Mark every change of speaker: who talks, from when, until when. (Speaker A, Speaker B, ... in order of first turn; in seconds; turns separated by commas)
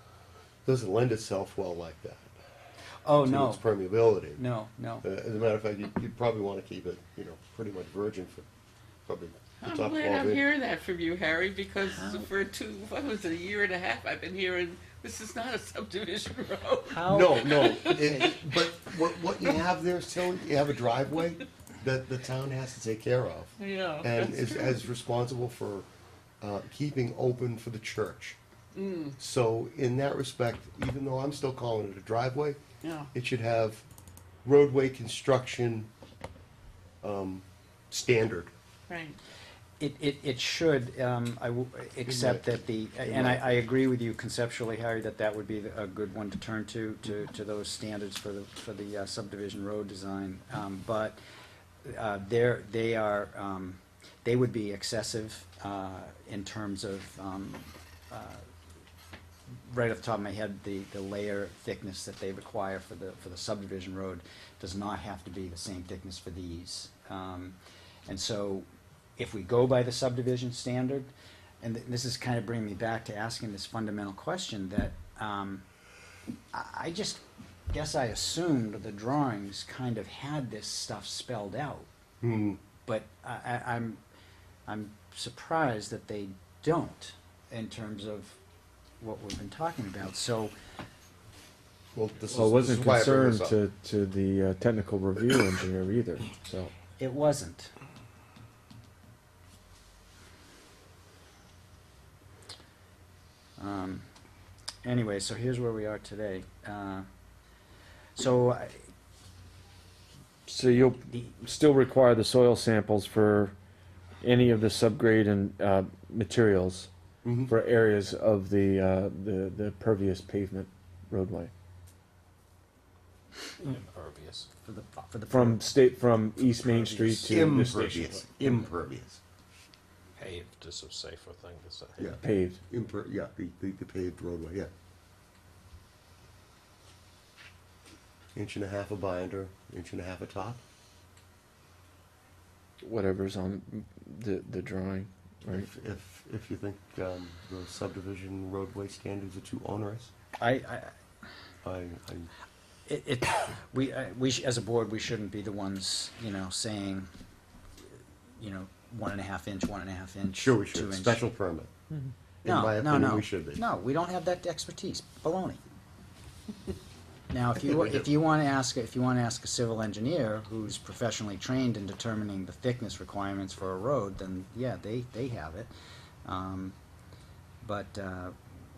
Speaker A: 0.6-2.3, Speaker B: 3.0-3.6, Speaker A: 3.2-4.4, Speaker B: 4.3-5.0, Speaker A: 5.0-8.4, Speaker A: 9.1-10.5, Speaker C: 9.6-17.9, Speaker B: 11.9-12.3, Speaker B: 16.9-18.4, Speaker A: 17.0-25.9, Speaker C: 23.6-24.8, Speaker A: 26.4-28.4, Speaker C: 28.7-29.1, Speaker A: 29.2-32.6, Speaker C: 32.8-33.1, Speaker A: 33.1-33.9, Speaker A: 34.4-35.9, Speaker A: 37.0-38.5, Speaker C: 38.9-39.2, Speaker B: 39.8-51.2, Speaker A: 42.0-43.6, Speaker B: 51.8-58.4, Speaker B: 59.6-68.7, Speaker B: 69.2-75.6, Speaker B: 76.5-81.9, Speaker A: 82.2-82.6, Speaker B: 82.8-84.0, Speaker B: 84.7-88.4, Speaker B: 89.0-90.5, Speaker A: 91.9-93.6, Speaker D: 92.3-96.7, Speaker B: 97.0-97.7, Speaker B: 103.6-104.0, Speaker B: 104.8-107.1, Speaker B: 108.2-108.8, Speaker D: 110.5-113.5, Speaker D: 114.2-116.9, Speaker A: 117.2-117.5, Speaker D: 117.5-121.5, Speaker E: 123.6-124.5, Speaker B: 124.6-125.6, Speaker D: 125.3-128.3, Speaker B: 126.7-127.2, Speaker A: 127.1-129.2, Speaker E: 130.2-132.1, Speaker A: 132.0-134.7, Speaker D: 132.2-132.6, Speaker A: 138.3-140.6, Speaker D: 142.8-145.7, Speaker A: 145.5-150.1, Speaker B: 150.4-150.9, Speaker A: 151.6-152.3, Speaker B: 152.9-157.1, Speaker B: 158.4-161.2, Speaker A: 160.3-161.7, Speaker A: 162.4-163.6, Speaker B: 162.4-165.6, Speaker B: 167.3-175.7, Speaker A: 167.6-168.1, Speaker B: 176.2-176.8, Speaker B: 177.6-178.3